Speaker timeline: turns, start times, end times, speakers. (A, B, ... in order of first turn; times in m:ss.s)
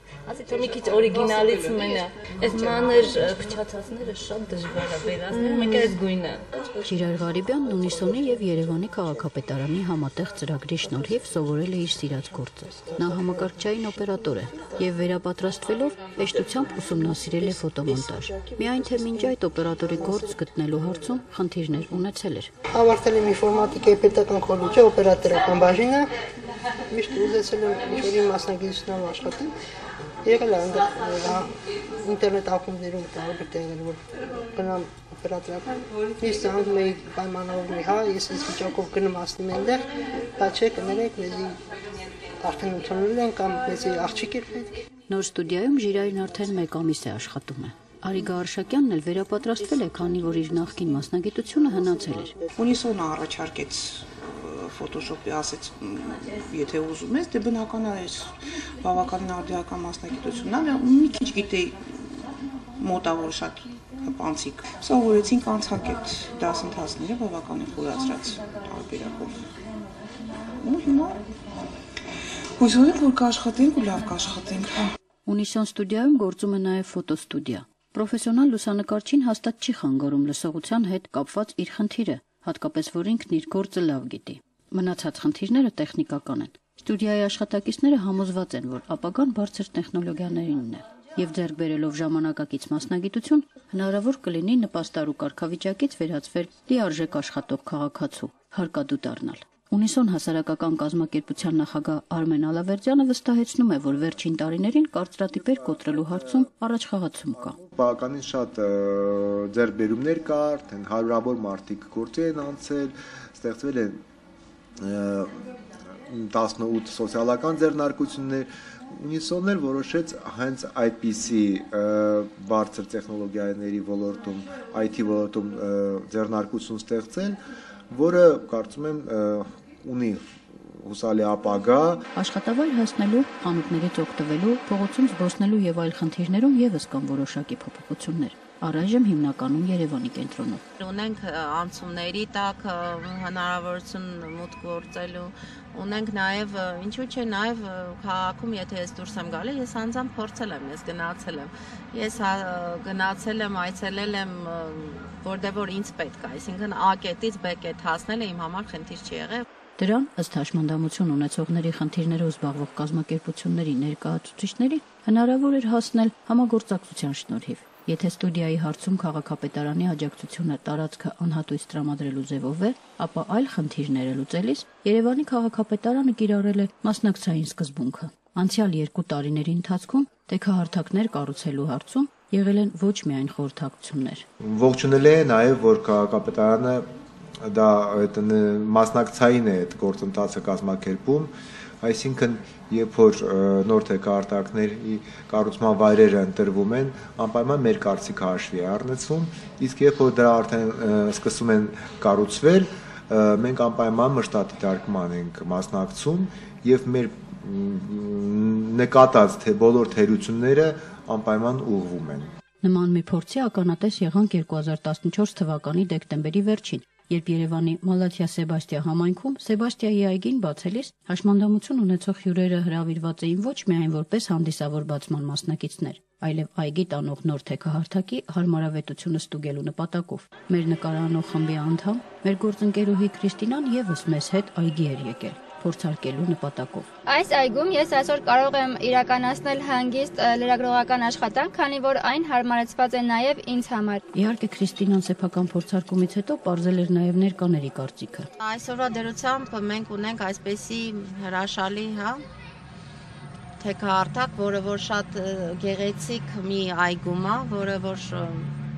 0:00.3-0:06.6 A
0:06.8-0:22.5 B
0:17.9-0:19.3 C
0:19.9-0:20.3 C
0:22.7-0:26.1 C
0:26.9-0:29.5 C
0:30.2-0:31.5 C
0:32.0-0:34.0 C
0:34.5-0:39.8 C
0:40.4-0:41.6 C
0:42.4-0:44.7 C
0:45.1-0:52.4 B
0:52.0-0:52.5 C
0:52.6-1:02.2 D
1:02.8-1:09.4 D
1:10.6-1:11.2 D
1:12.6-1:14.9 D
1:15.3-1:47.6 B
1:45.6-1:46.5 E
1:47.3-1:54.0 E
1:54.8-1:55.4 E
1:56.1-2:07.4 E
2:07.9-2:12.0 E
2:12.2-2:20.6 B
2:20.8-2:39.4 F
2:39.8-3:04.2 B
3:04.4-3:06.9 E
3:07.4-3:11.3 E
3:11.8-3:32.3 E
3:32.6-3:56.9 B
3:57.1-4:04.0 G
4:04.1-4:08.3 B
4:08.4-4:12.2 F
4:13.6-4:18.5 F